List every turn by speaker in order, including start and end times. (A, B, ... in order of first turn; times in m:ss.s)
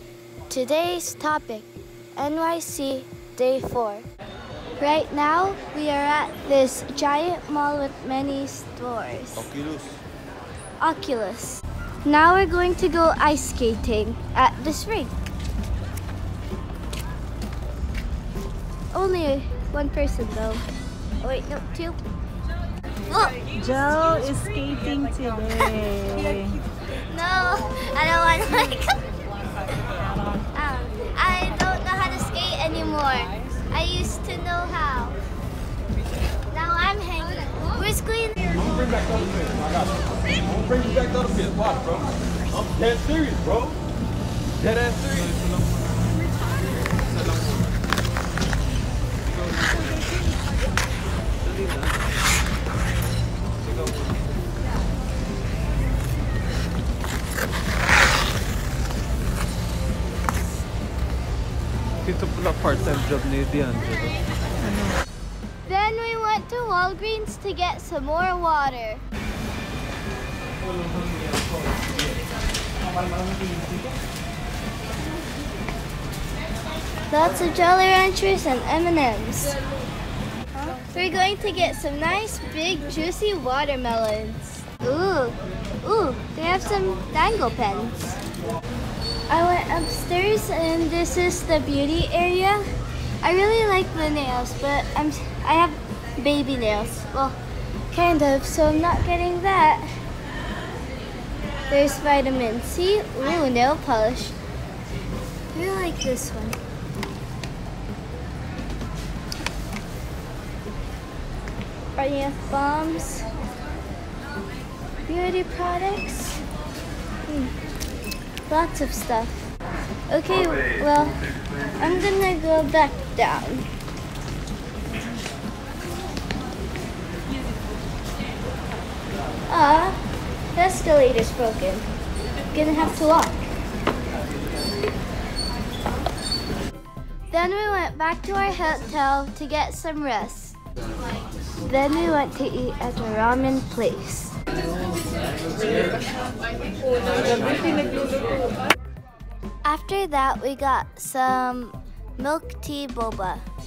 0:00.5-0:04.0 A
0:04.8-0:09.6 A
0:09.5-0:10.0 B
0:10.8-0:15.1 A
0:18.9-0:20.6 A
0:21.2-0:22.0 A
0:23.1-0:23.4 A
0:23.6-0:26.6 C
0:27.1-0:29.0 A
0:30.5-0:35.2 A
0:36.5-0:38.8 A
0:40.7-0:43.8 B
0:44.6-0:45.1 B
0:45.0-0:45.4 D
0:51.5-0:51.8 D
1:02.0-1:04.0 D
1:05.7-1:09.0 A
1:17.1-1:19.6 A
1:20.5-1:28.2 A
1:29.3-1:32.6 A
1:33.2-1:37.4 A
1:37.9-1:39.9 A
1:41.7-1:44.4 A
1:45.5-1:46.6 A
1:52.0-1:53.3 A
1:55.1-1:56.4 A
1:57.3-1:57.5 A
1:58.5-1:59.5 A
2:00.1-2:01.2 A
2:01.8-2:03.7 A
2:09.5-2:10.0 A
2:10.6-2:11.9 A
2:12.5-2:13.5 A
2:17.3-2:20.6 A
2:21.6-2:24.4 A
2:29.6-2:33.4 A